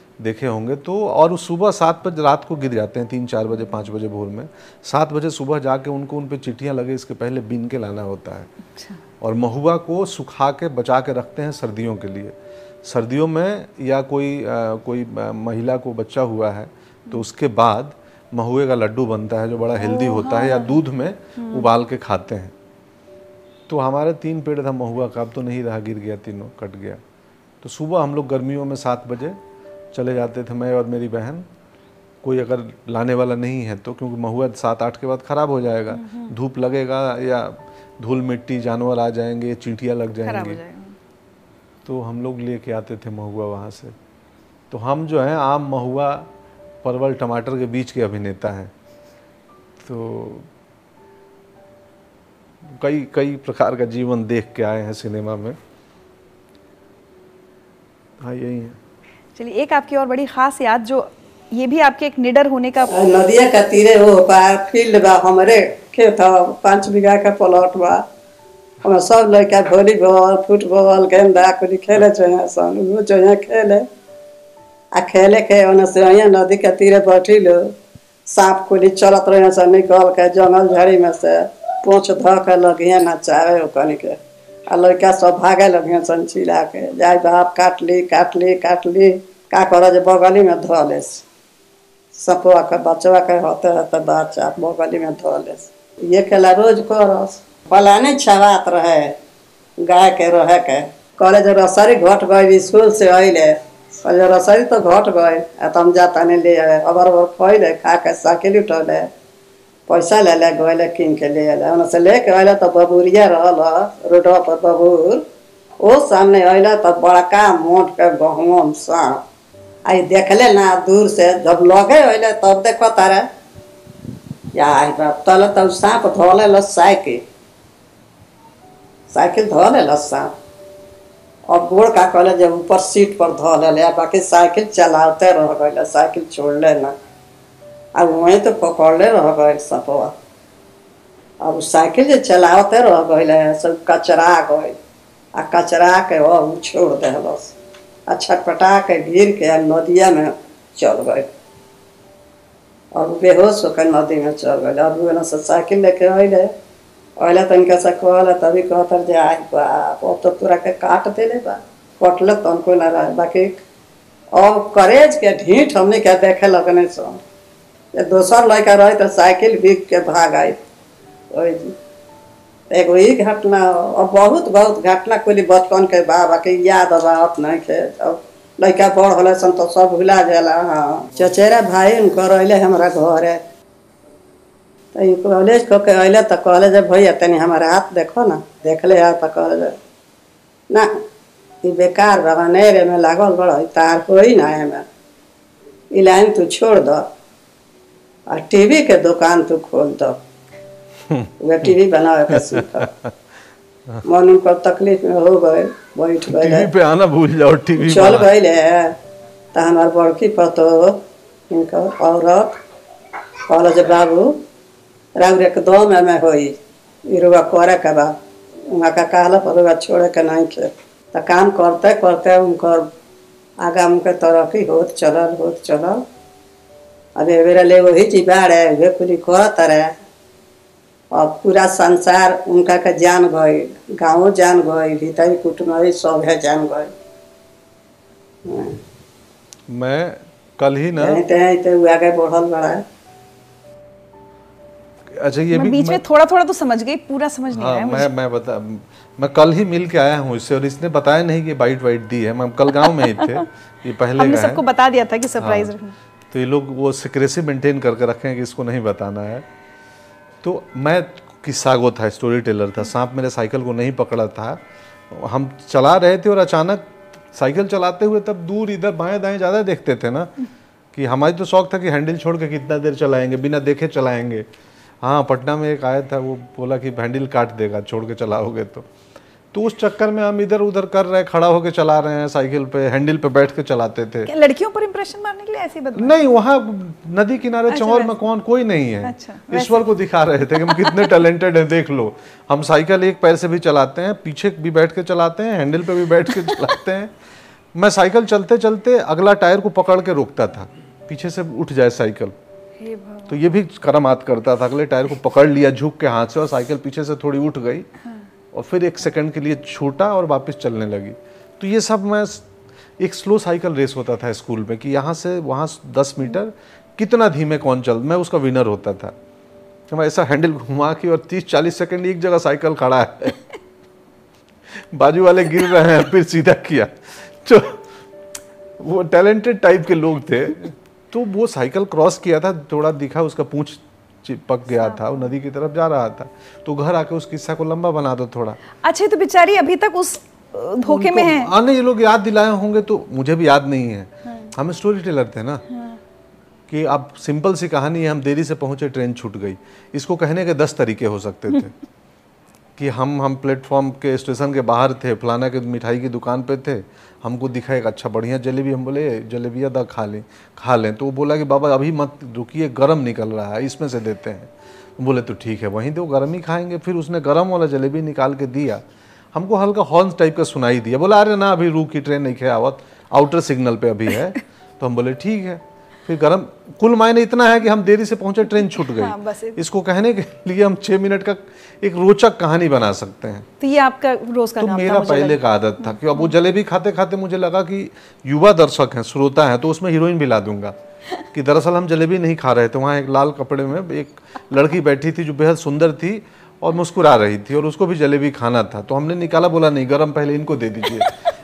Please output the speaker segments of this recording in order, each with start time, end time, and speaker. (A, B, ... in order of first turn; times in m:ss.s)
0:00.2-0:08.5 A
0:08.7-0:09.0 B
0:09.2-0:22.5 A
0:19.8-0:20.8 B
0:21.4-0:21.7 B
0:23.7-0:27.0 A
0:27.6-0:29.4 A
0:29.9-0:31.5 A
0:32.2-0:40.6 A
0:35.9-0:36.3 B
0:40.2-0:41.0 B
0:41.8-0:44.0 A
0:44.7-0:46.3 A
0:46.8-0:48.7 A
0:49.8-0:50.5 A
0:52.6-0:55.6 A
0:58.2-0:58.8 A
0:59.4-1:02.9 B
1:02.9-1:08.0 C
1:08.8-1:13.8 C
1:14.9-1:17.7 C
1:18.3-1:24.2 C
1:24.7-1:31.2 C
1:32.1-1:39.2 C
1:39.8-1:49.1 C
1:49.9-1:55.2 C
1:55.8-1:59.2 C
1:59.8-2:03.3 C
2:04.5-2:07.2 C
2:09.1-2:10.3 C
2:11.5-2:16.9 C
2:17.9-2:20.1 C
2:21.4-2:24.8 C
2:25.4-2:27.5 C
2:28.1-2:31.3 C
2:32.9-2:36.5 C
2:37.2-2:43.6 C
2:44.3-2:47.2 C
2:47.9-2:50.6 C
2:51.3-2:51.7 C
2:52.7-3:03.4 C
3:04.9-3:09.8 C
3:10.7-3:11.0 C
3:11.6-3:14.8 C
3:15.9-3:17.1 C
3:18.3-3:20.2 C
3:21.1-3:21.7 A
3:21.4-3:22.9 C
3:22.3-3:23.1 A
3:24.0-3:26.7 C
3:26.2-3:28.3 A
3:27.8-3:28.9 C
3:29.5-3:32.6 C
3:33.5-3:34.4 C
3:35.2-3:36.5 C
3:37.1-3:38.1 C
3:38.7-3:42.9 C
3:43.6-3:46.0 C
3:47.2-3:49.9 C
3:51.1-3:56.9 C
3:58.4-3:58.8 C
3:59.7-4:01.2 A
4:01.0-4:02.8 C
4:05.1-4:06.0 A
4:05.5-4:08.1 B
4:07.5-4:14.6 A
4:13.0-4:13.4 B
4:14.2-4:15.9 B
4:15.4-4:15.7 A
4:16.3-4:19.4 A
4:20.4-4:30.3 A
4:30.9-4:34.5 A
4:35.0-4:38.9 A
4:39.5-4:44.3 A
4:44.2-4:46.1 B
4:45.9-4:57.1 A
4:47.7-4:48.1 B
4:49.0-4:49.9 B
4:50.6-4:51.1 B
4:57.7-5:02.3 A
5:02.8-5:03.4 B
5:03.3-5:07.9 A
5:08.5-5:19.1 A
5:19.9-5:23.4 A
5:24.7-5:27.8 A
5:28.8-5:38.6 A
5:34.8-5:35.2 B
5:38.8-5:41.5 B
5:40.8-5:45.6 A
5:45.7-5:46.0 B
5:46.7-5:51.7 A
5:52.8-6:23.5 A
6:18.8-6:19.6 B
6:23.6-6:26.3 B
6:24.6-6:30.7 A
6:31.3-6:41.1 A